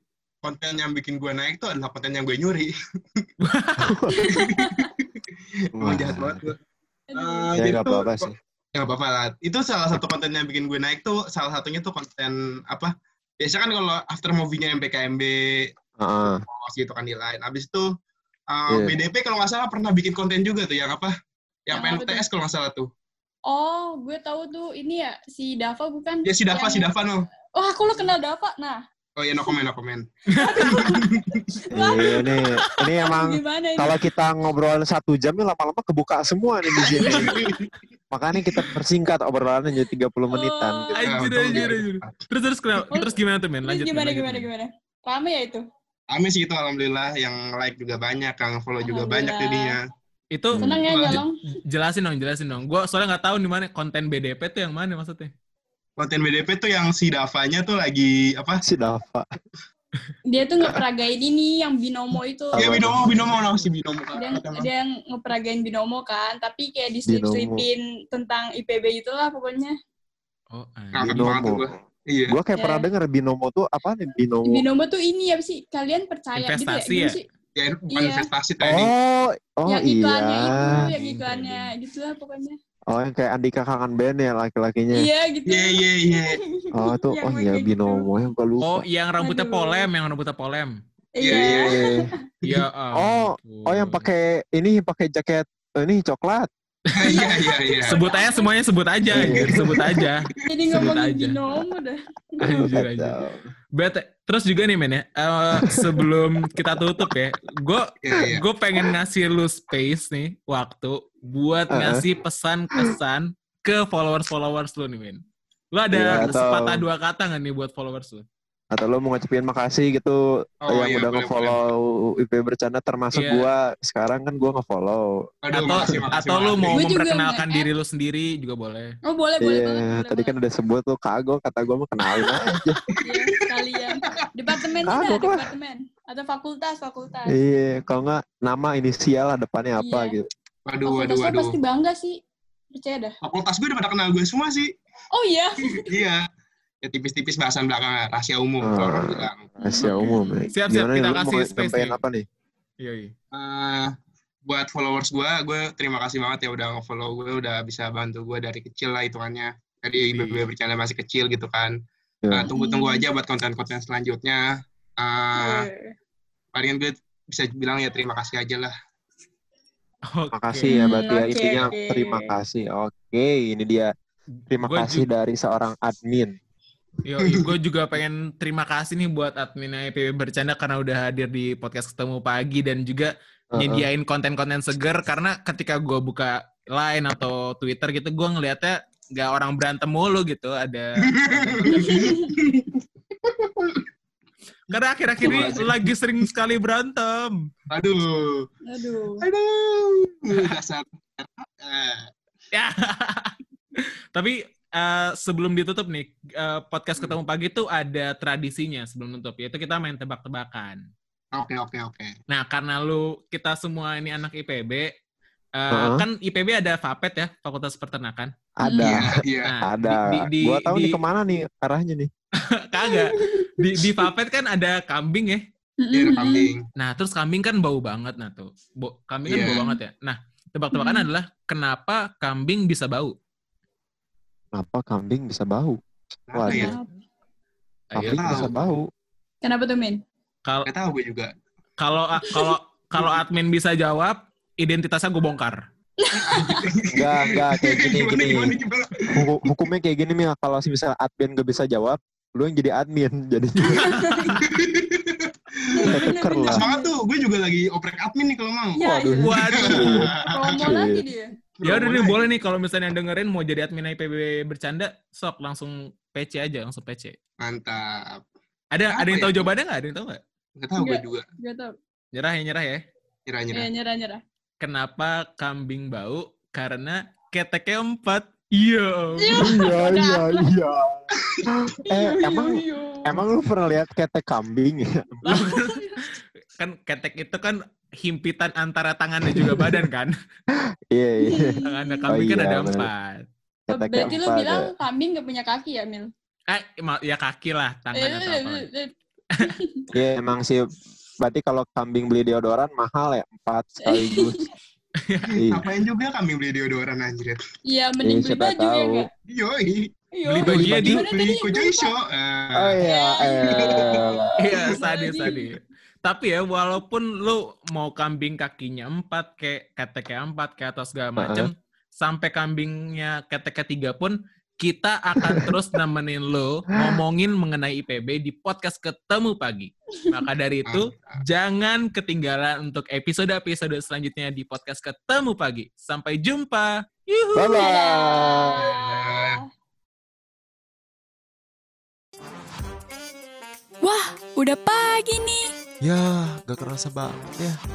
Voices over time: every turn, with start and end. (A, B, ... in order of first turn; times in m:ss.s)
0:00.4-0:03.3 A
0:03.4-0:04.0 B
0:03.8-0:04.2 C
0:04.1-0:04.9 D
0:04.2-0:05.1 A
0:05.8-0:06.6 A
0:05.8-0:06.5 C
0:07.1-0:07.5 D
0:07.2-0:15.7 A
0:07.6-0:08.3 C
0:16.0-0:16.4 C
0:16.5-0:17.9 A
0:18.5-0:21.1 A
0:21.7-0:22.9 A
0:21.7-0:22.2 D
0:23.5-0:26.9 D
0:26.3-0:27.3 A
0:27.6-0:28.8 D
0:29.2-0:30.1 A
0:30.3-0:32.4 D
0:30.6-0:31.6 A
0:31.7-0:37.4 C
0:33.0-0:33.9 D
0:36.8-0:37.7 A
0:38.1-0:40.9 C
0:38.4-0:38.7 A
0:40.3-0:41.7 D
0:41.0-0:44.5 B
0:41.1-0:42.2 A
0:43.6-0:45.6 D
0:46.1-0:49.8 A
0:48.8-0:49.8 D
0:50.4-0:55.3 B
0:50.5-0:51.1 C
0:50.6-0:51.4 D
0:50.9-0:51.2 A
0:56.0-0:58.6 A
0:58.6-0:59.3 C
1:00.3-1:02.9 D
1:02.5-1:04.7 A
1:02.6-1:03.3 C
1:04.2-1:09.7 D
1:07.1-1:07.6 C
1:10.5-1:11.2 B
1:10.9-1:12.4 A
1:11.0-1:11.8 C
1:12.3-1:14.6 C
1:12.6-1:12.8 D
1:14.5-1:17.2 D
1:16.4-1:17.2 B
1:17.6-1:18.9 A
1:17.9-1:18.3 D
1:18.6-1:21.0 C
1:19.7-1:22.6 D
1:20.6-1:21.7 B
1:22.9-1:25.1 C
1:24.9-1:28.0 D
1:25.5-1:26.4 A
1:26.7-1:28.8 C
1:28.6-1:30.8 B
1:29.2-1:29.9 D
1:31.2-1:32.2 D
1:31.2-1:31.8 A
1:31.3-1:32.1 C
1:32.4-1:34.1 B
1:33.0-1:36.5 C
1:36.9-1:41.4 B
1:37.0-1:38.0 A
1:37.1-1:38.5 D
1:39.1-1:39.9 C
1:39.1-1:40.0 A
1:40.5-1:42.0 D
1:42.4-1:43.2 B
1:42.5-1:43.5 C
1:43.8-1:55.2 B
1:48.0-1:48.4 A
1:51.7-1:52.0 C
1:55.7-1:58.2 B
1:55.9-1:56.8 C
1:58.7-2:05.1 C
2:00.7-2:01.6 A
2:03.1-2:03.5 B
2:05.4-2:06.8 A
2:05.5-2:09.0 B
2:06.7-2:07.7 D
2:09.1-2:10.4 D
2:09.4-2:12.8 C
2:12.3-2:12.8 B
2:13.0-2:13.4 A
2:13.0-2:17.4 D
2:14.9-2:15.5 C
2:17.3-2:20.3 C
2:19.8-2:20.2 D
2:20.7-2:21.6 A
2:20.9-2:22.2 D
2:22.8-2:23.1 D
2:23.2-2:24.7 A
2:25.1-2:25.9 D
2:25.9-2:26.2 A
2:26.8-2:29.5 A
2:28.6-2:32.2 C
2:29.6-2:30.5 D
2:29.8-2:32.0 B
2:32.8-2:33.1 B
2:33.3-2:33.9 A
2:34.5-2:41.8 A
2:40.0-2:40.5 B
2:42.3-2:44.5 A
2:42.5-2:43.0 D
2:45.0-2:45.7 A
2:45.4-2:45.9 D
2:46.5-2:48.7 A
2:50.1-2:50.7 B
2:50.3-2:53.9 C
2:50.7-2:52.3 D
2:54.5-2:56.3 C
2:54.6-2:55.1 B
2:57.0-3:12.0 B
2:57.2-2:57.5 A
3:03.5-3:03.9 C
3:11.0-3:13.9 A
3:11.7-3:12.3 D
3:14.7-3:17.5 B
3:15.2-3:15.9 A
3:17.7-3:18.5 A
3:18.6-3:19.2 D
3:19.2-3:22.1 A
3:22.5-3:23.4 B
3:24.2-3:30.8 B
3:31.4-3:32.2 A
3:32.3-3:34.9 B
3:35.6-3:38.3 B
3:35.7-3:36.1 C
3:38.6-3:42.1 C
3:38.6-3:39.0 D
3:38.8-3:39.5 A
3:39.4-3:41.0 B
3:42.7-3:45.4 B
3:42.8-3:43.5 D
3:45.8-3:46.5 D
3:45.9-3:46.6 A
3:46.8-3:53.2 B
3:49.3-3:49.6 A
3:49.4-3:49.8 D
3:50.7-3:51.1 D
3:54.6-3:55.8 C
3:55.1-3:55.6 E
3:56.3-3:56.8 A
3:56.3-3:56.7 C
3:56.5-3:56.9 D
3:57.9-3:58.6 B
3:58.0-3:58.8 C
3:58.0-3:58.5 A
3:59.4-4:00.0 D
4:00.7-4:01.3 A
4:01.8-4:05.6 B
4:06.0-4:06.6 D
4:06.2-4:09.6 A
4:06.9-4:08.5 C
4:09.1-4:14.0 C
4:13.6-4:14.4 D
4:13.8-4:14.4 B
4:14.4-4:16.0 A
4:15.7-4:16.9 D
4:15.9-4:16.7 C
4:16.5-4:20.7 A
4:18.8-4:19.4 D
4:18.8-4:21.0 C
4:19.2-4:20.1 B
4:20.1-4:21.3 D
4:21.6-4:22.2 A
4:21.6-4:27.2 B
4:27.4-4:28.2 A
4:28.7-4:30.2 B
4:28.9-4:29.4 A
4:30.6-4:31.2 A
4:30.8-4:31.7 D
4:32.1-4:32.8 B
4:33.3-4:33.7 A
4:33.5-4:34.2 D
4:34.6-4:39.5 B
4:39.2-4:40.5 D
4:39.4-4:45.4 C
4:41.2-4:41.7 A
4:41.9-4:43.2 D
4:45.2-4:46.0 D
4:45.3-4:50.1 B
4:49.3-4:49.8 C
4:50.9-4:51.6 C
4:51.2-4:52.0 D
4:51.6-4:53.3 B
4:52.1-4:52.9 C
4:53.7-4:54.7 C
4:53.7-4:56.1 D
4:56.5-4:58.7 B
4:57.9-4:59.9 D
4:59.9-5:00.6 C
5:01.2-5:04.5 C
5:03.8-5:04.5 D
5:05.0-5:05.4 B
5:05.3-5:07.4 A
5:05.4-5:05.6 C
5:07.7-5:09.1 D
5:08.0-5:09.1 C
5:09.3-5:09.9 A
5:10.2-5:11.9 D
5:10.3-5:11.0 B
5:10.5-5:11.0 C
5:11.0-5:12.8 A
5:12.6-5:14.6 C
5:12.8-5:15.4 D
5:13.6-5:14.0 A
5:14.4-5:37.6 B
5:21.2-5:21.5 C
5:30.7-5:31.2 A
5:37.4-5:38.6 C
5:37.5-5:39.4 D
5:38.6-5:39.4 A
5:43.8-5:45.5 D
5:45.8-5:47.6 E